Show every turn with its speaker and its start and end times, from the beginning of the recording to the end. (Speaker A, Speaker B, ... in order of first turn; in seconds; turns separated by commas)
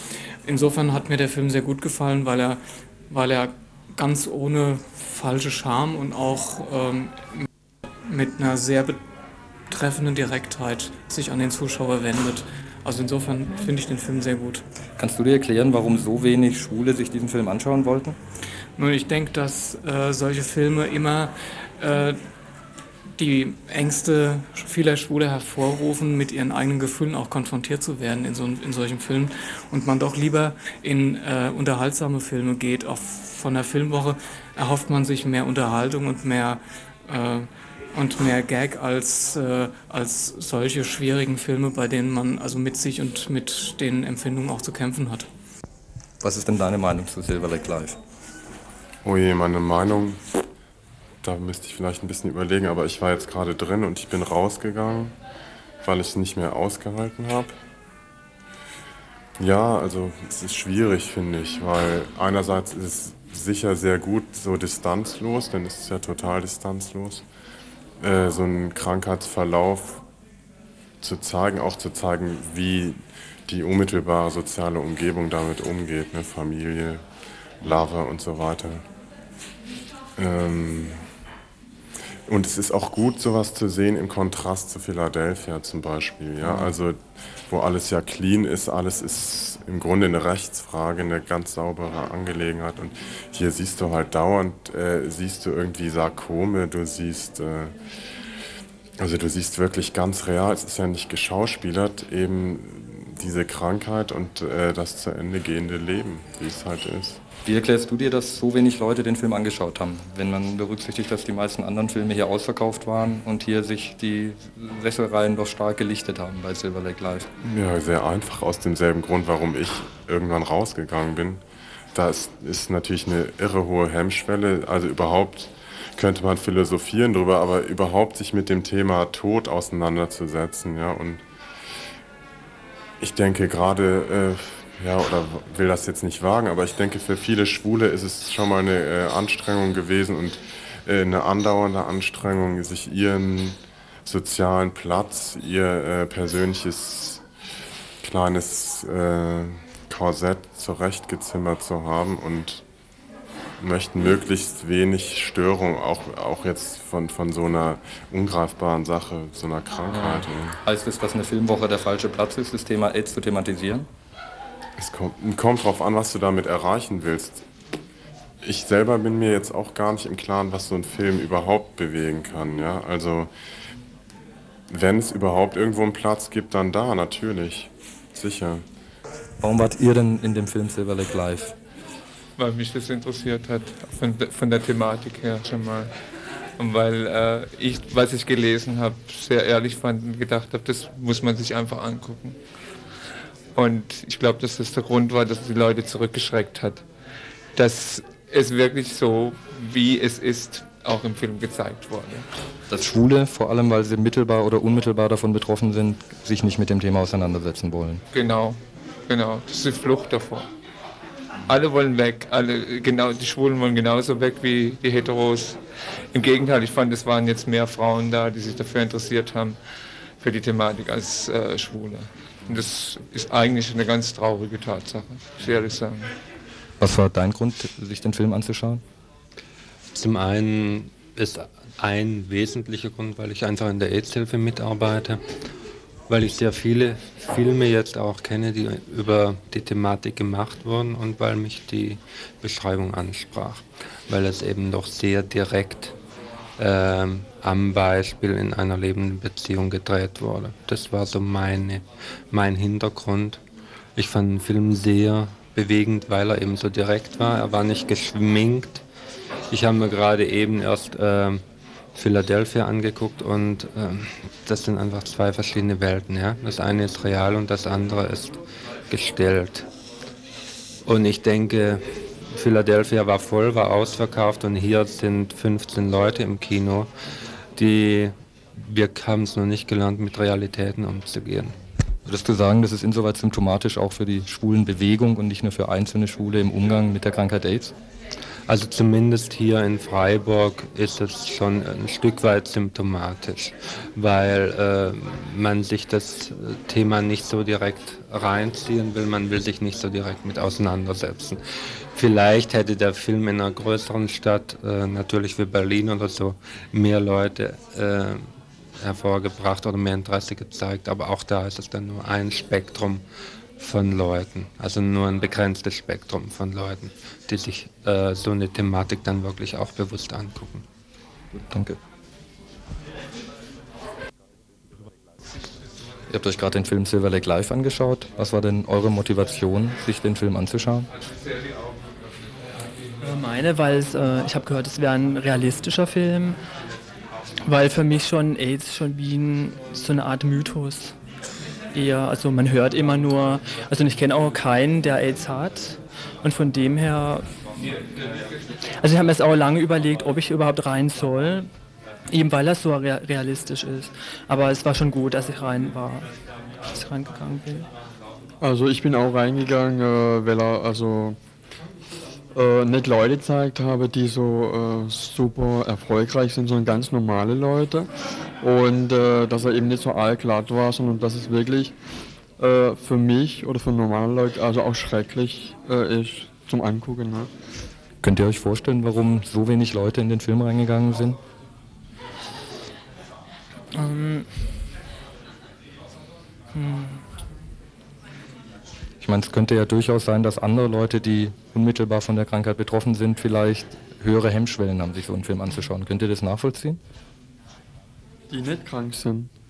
Speaker A: 0.4-7.5, Speaker A: 8.0-9.0, Speaker A: 9.7-14.7, Speaker B: 15.0-18.2, Speaker A: 18.8-22.2, Speaker A: 23.1-45.3, Speaker B: 46.2-48.0, Speaker C: 49.0-50.2, Speaker C: 51.2-55.1, Speaker C: 55.8-57.5, Speaker C: 59.4-67.2, Speaker C: 68.0-70.0, Speaker C: 71.0-77.0, Speaker C: 77.6-78.8, Speaker C: 80.2-81.0, Speaker C: 82.3-87.0, Speaker C: 87.5-97.7, Speaker C: 99.0-107.2, Speaker B: 107.5-117.3, Speaker C: 117.4-121.4, Speaker C: 121.9-131.2, Speaker C: 133.0-147.2, Speaker C: 148.0-152.6, Speaker C: 153.6-160.6, Speaker B: 159.9-163.9, Speaker C: 164.8-167.4, Speaker C: 168.4-173.3, Speaker C: 174.7-178.7, Speaker B: 179.4-181.6, Speaker D: 182.4-185.9, Speaker D: 186.6-192.4, Speaker D: 193.5-196.8, Speaker D: 197.6-202.3, Speaker B: 202.7-208.0, Speaker D: 208.1-210.5, Speaker D: 211.5-219.6, Speaker D: 220.2-226.2, Speaker B: 226.8-228.8, Speaker E: 229.9-235.2, Speaker E: 236.1-245.9, Speaker E: 246.6-253.4, Speaker E: 254.0-258.8, Speaker E: 259.5-269.7, Speaker E: 270.8-276.9, Speaker E: 277.6-281.6, Speaker B: 282.1-287.7, Speaker E: 288.5-301.4, Speaker E: 301.9-313.1, Speaker E: 313.6-320.7, Speaker B: 321.4-321.8, Speaker B: 326.1-330.9, Speaker F: 333.0-336.4, Speaker F: 337.5-340.9, Speaker F: 341.7-347.8, Speaker F: 348.8-351.5, Speaker F: 352.1-356.1, Speaker F: 356.7-357.7, Speaker G: 358.4-361.2, Speaker G: 362.3-367.9, Speaker G: 368.4-371.7, Speaker G: 372.4-377.3, Speaker B: 378.0-381.2, Speaker F: 383.7-384.4, Speaker F: 386.5-387.1, Speaker B: 389.0-396.8, Speaker G: 398.3-399.3